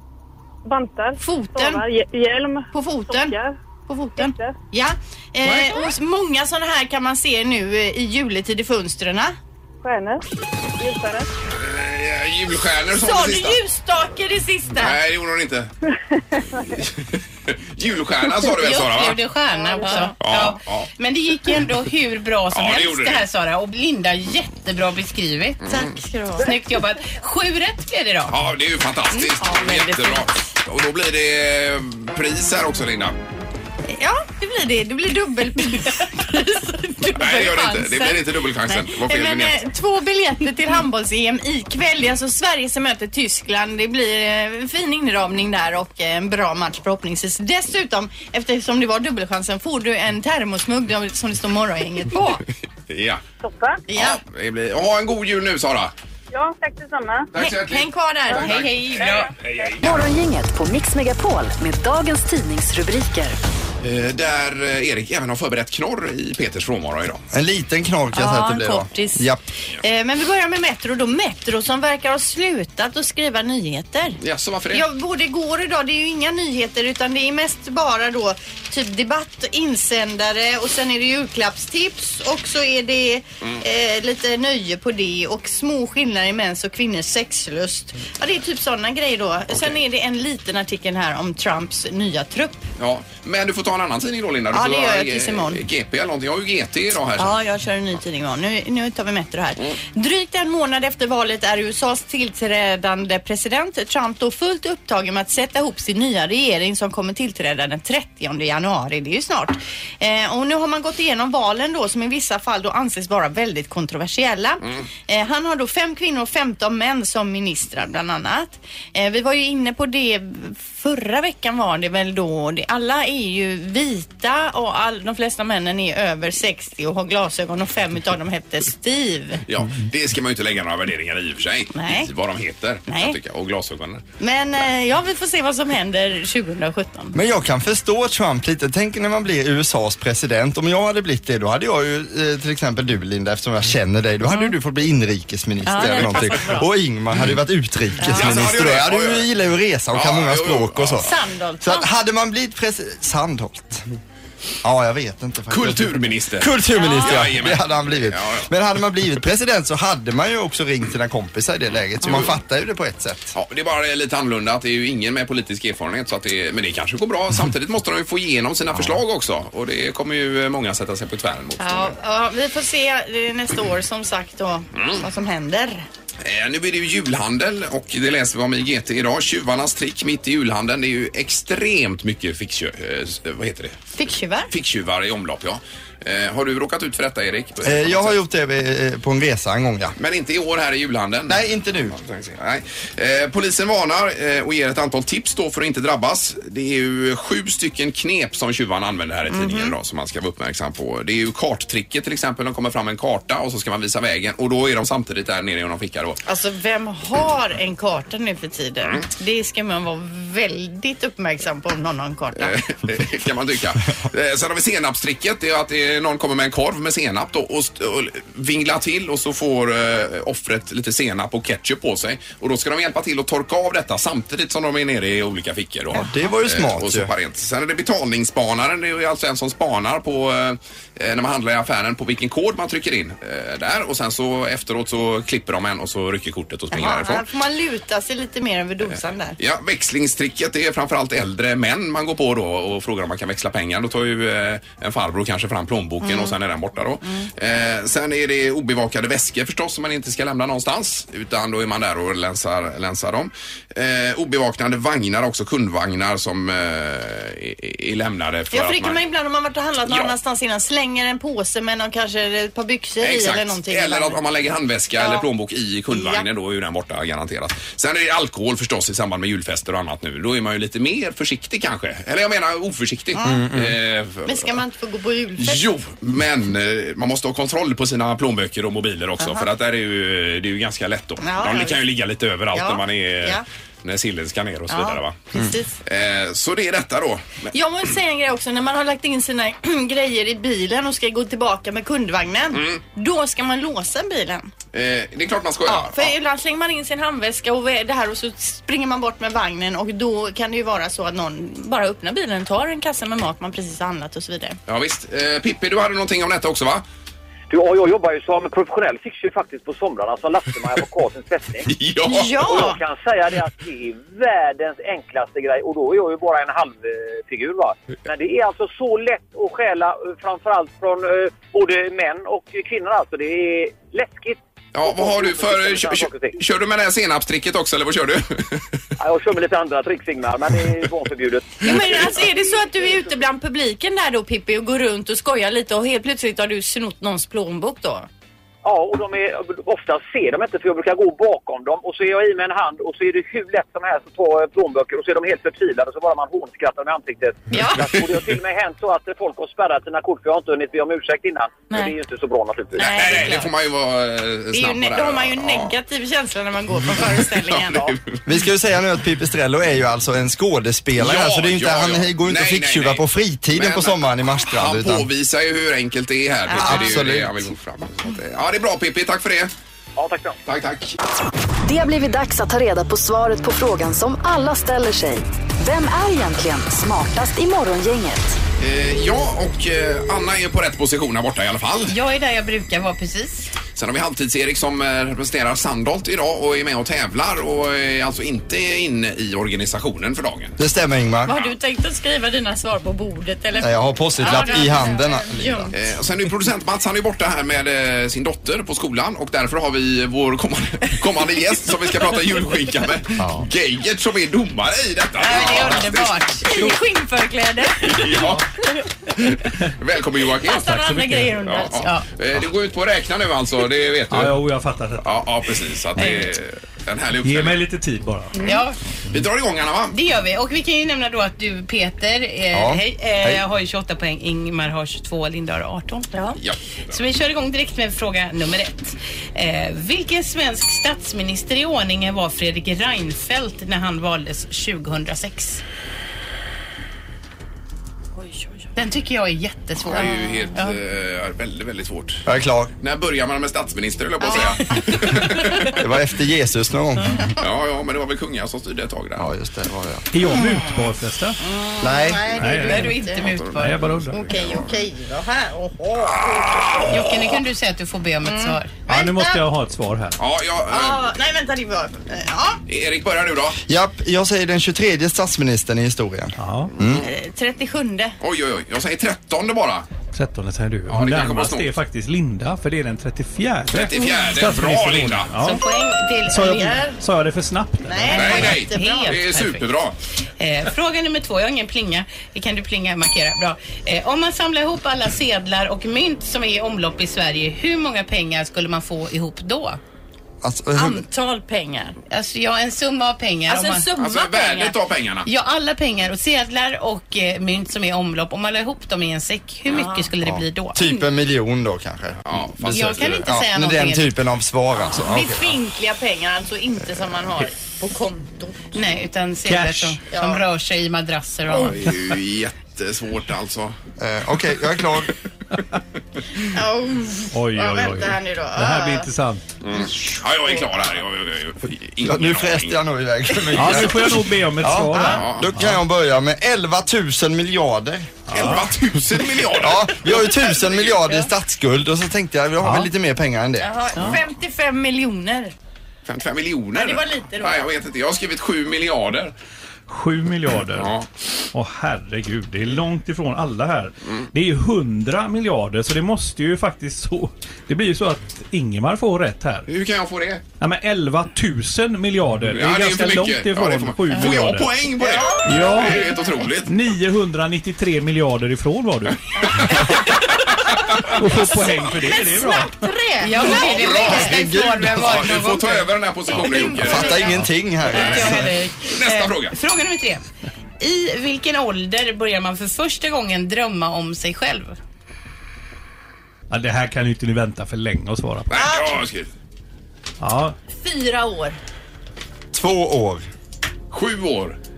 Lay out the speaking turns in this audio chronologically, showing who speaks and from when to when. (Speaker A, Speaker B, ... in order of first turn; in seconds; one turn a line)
Speaker A: 0.6-3.5
Speaker B: 1.2-1.9
Speaker B: 2.7-3.4
Speaker B: 3.9-9.3
Speaker A: 4.2-4.5
Speaker A: 9.8-10.2
Speaker A: 10.8-11.3
Speaker C: 11.5-13.6
Speaker B: 12.9-15.0
Speaker C: 14.8-15.7
Speaker A: 16.1-16.6
Speaker C: 16.6-19.2
Speaker D: 18.4-25.6
Speaker A: 19.5-20.1
Speaker B: 19.8-20.1
Speaker C: 20.2-20.9
Speaker C: 22.5-23.2
Speaker C: 25.6-25.9
Speaker B: 25.7-26.5
Speaker D: 26.4-28.3
Speaker C: 28.3-33.1
Speaker B: 29.1-30.3
Speaker B: 33.9-52.4
Speaker C: 37.1-39.6
Speaker C: 52.9-53.2
Speaker A: 53.4-53.8
Speaker B: 53.9-54.2
Speaker C: 53.9-55.9
Speaker A: 56.3-57.3
Speaker C: 57.3-60.0
Speaker B: 57.4-58.7
Speaker D: 58.3-59.3
Speaker A: 59.0-59.7
Speaker E: 59.8-63.4
Speaker C: 63.8-67.2
Speaker F: 67.3-69.4
Speaker B: 68.1-74.2
Speaker C: 74.2-74.8
Speaker B: 74.7-92.6
Speaker C: 89.5-89.8
Speaker C: 92.8-97.4
Speaker B: 94.5-95.6
Speaker B: 97.2-129.4
Speaker C: 129.5-134.0
Speaker B: 131.8-132.1
Speaker B: 132.9-133.2
Speaker B: 134.2-137.2
Speaker F: 137.1-151.1
Speaker B: 144.3-144.5
Speaker B: 145.6-146.7
Speaker B: 148.0-148.3
Speaker C: 148.0-149.3
Speaker C: 149.9-151.1
Speaker B: 151.0-151.9
Speaker F: 151.6-153.8
Speaker F: 154.6-163.3
Speaker C: 155.5-158.5
Speaker B: 156.7-157.3
Speaker C: 162.0-162.4
Speaker C: 163.3-171.9
Speaker B: 171.6-175.8
Speaker C: 174.7-175.0
Speaker C: 176.2-183.8
Speaker B: 183.9-184.5
Speaker C: 184.5-188.2
Speaker F: 187.6-189.9
Speaker C: 190.0-206.2
Speaker F: 191.3-191.9
Speaker B: 199.3-199.7
Speaker B: 206.2-212.6
Speaker C: 212.3-237.2
Speaker F: 225.9-227.1
Speaker B: 236.7-239.4
Speaker C: 239.4-259.0
Speaker B: 246.0-246.3
Speaker B: 258.5-264.2
Speaker C: 259.8-260.1
Speaker C: 263.0-274.6
Speaker B: 265.0-265.2
Speaker B: 265.9-266.2
Speaker B: 273.1-273.5
Speaker F: 273.2-273.7
Speaker B: 274.2-275.6
Speaker C: 275.4-285.3
Speaker B: 279.2-279.4
Speaker B: 281.2-281.8
Speaker B: 282.5-283.4
Speaker B: 284.7-285.8
Speaker C: 285.8-287.5
Speaker B: 287.5-294.5
Speaker C: 292.5-292.8
Speaker C: 294.7-296.1
Speaker B: 295.6-304.6
Speaker C: 304.7-306.8
Speaker G: 307.5-311.7
Speaker C: 311.6-312.4
Speaker B: 312.0-312.8
Speaker G: 312.4-326.4
Speaker C: 324.7-328.8
Speaker G: 329.0-332.3
Speaker B: 331.6-338.1
Speaker G: 338.6-353.1
Speaker B: 347.5-347.9
Speaker C: 352.8-355.7
Speaker B: 352.8-353.5
Speaker B: 354.5-357.9
Speaker C: 357.0-358.2
Speaker F: 358.2-365.1
Speaker C: 361.0-369.5
Speaker B: 366.5-366.9
Speaker F: 366.5-367.5
Speaker G: 370.0-370.4
Speaker C: 370.4-371.0
Speaker E: 371.6-378.4
Speaker C: 378.6-381.9
Speaker D: 381.9-383.5
Speaker C: 383.7-390.6
Speaker F: 390.6-391.3
Speaker B: 391.2-395.7
Speaker F: 393.6-395.7
Speaker C: 395.7-406.2
Speaker F: 403.2-403.5
Speaker D: 405.2-406.8
Speaker B: 405.2-405.8
Speaker B: 406.4-408.9
Speaker C: 407.8-408.4
Speaker C: 409.2-410.8
Speaker B: 410.4-411.9
Speaker H: 410.7-411.3
Speaker C: 411.4-414.4
Speaker H: 414.1-415.5
Speaker C: 415.0-417.6
Speaker H: 417.2-418.4
Speaker D: 418.4-418.8
Speaker C: 419.1-419.9
Speaker D: 419.9-426.1
Speaker F: 422.5-423.4
Speaker B: 426.1-426.4
Speaker C: 426.4-426.9
Speaker D: 426.9-435.6
Speaker B: 438.2-438.6
Speaker D: 438.8-440.7
Speaker C: 439.9-442.2
Speaker F: 442.2-442.7
Speaker C: 442.8-445.8
Speaker B: 444.2-444.8
Speaker F: 445.6-447.3
Speaker C: 447.4-449.3
Speaker F: 449.2-450.1
Speaker H: 450.1-451.4
Speaker B: 450.3-450.8
Speaker B: 451.4-453.5
Speaker F: 451.8-452.4
Speaker H: 452.4-453.0
Speaker D: 452.5-453.8
Speaker C: 453.3-454.6
Speaker H: 453.6-454.2
Speaker B: 454.1-456.9
Speaker C: 456.0-457.2
Speaker D: 456.9-458.7
Speaker B: 458.2-459.4
Speaker H: 458.8-460.2
Speaker C: 460.2-461.0
Speaker B: 460.7-462.6
Speaker C: 462.7-463.6
Speaker F: 463.7-467.0
Speaker H: 466.4-466.7
Speaker C: 466.8-467.1
Speaker B: 467.0-468.1
Speaker C: 468.2-469.9
Speaker H: 470.1-475.6
Speaker C: 470.9-471.7
Speaker C: 473.7-475.3
Speaker D: 475.4-476.9
Speaker H: 476.3-478.5
Speaker B: 476.4-476.9
Speaker B: 477.8-479.2
Speaker C: 478.1-479.9
Speaker D: 478.1-479.7
Speaker D: 480.4-489.8
Speaker F: 490.4-491.0
Speaker B: 490.7-492.0
Speaker D: 492.1-493.9
Speaker B: 493.5-494.8
Speaker C: 493.9-495.3
Speaker D: 495.2-500.8
Speaker B: 499.7-500.1
Speaker F: 500.2-505.6
Speaker C: 502.2-503.2
Speaker D: 502.7-504.1
Speaker B: 504.8-508.7
Speaker D: 508.7-511.8
Speaker H: 509.5-510.0
Speaker B: 510.1-510.4
Speaker C: 511.5-513.7
Speaker F: 514.0-515.1
Speaker B: 516.4-519.1
Speaker H: 517.3-519.5
Speaker C: 519.6-522.8
Speaker F: 522.0-528.2
Speaker C: 523.4-523.9
Speaker H: 523.5-525.8
Speaker C: 525.0-525.5
Speaker H: 528.3-528.7
Speaker C: 528.3-531.1
Speaker F: 529.5-533.7
Speaker H: 532.6-532.9
Speaker B: 533.6-535.5
Speaker C: 536.0-539.3
Speaker B: 536.7-537.6
Speaker H: 539.9-540.9
Speaker C: 540.7-541.1
Speaker H: 541.5-549.7
Speaker C: 549.7-550.4
Speaker H: 550.6-554.8
Speaker C: 552.5-556.7
Speaker B: 555.0-556.3
Speaker H: 555.4-556.0
Speaker H: 556.6-559.8
Speaker B: 559.5-560.2
Speaker H: 561.0-562.8
Speaker B: 561.2-564.5
Speaker D: 563.2-565.9
Speaker C: 563.5-567.2
Speaker F: 564.1-565.3
Speaker B: 566.4-567.4
Speaker F: 566.6-568.5
Speaker D: 566.7-567.1
Speaker D: 567.9-570.2
Speaker C: 568.0-568.3
Speaker C: 568.9-569.5
Speaker D: 570.8-574.8
Speaker H: 576.5-578.5
Speaker C: 578.5-579.3
Speaker B: 578.5-579.0
Speaker H: 580.2-580.5
Speaker B: 580.7-581.6
Speaker F: 582.5-583.2
Speaker C: 583.9-584.6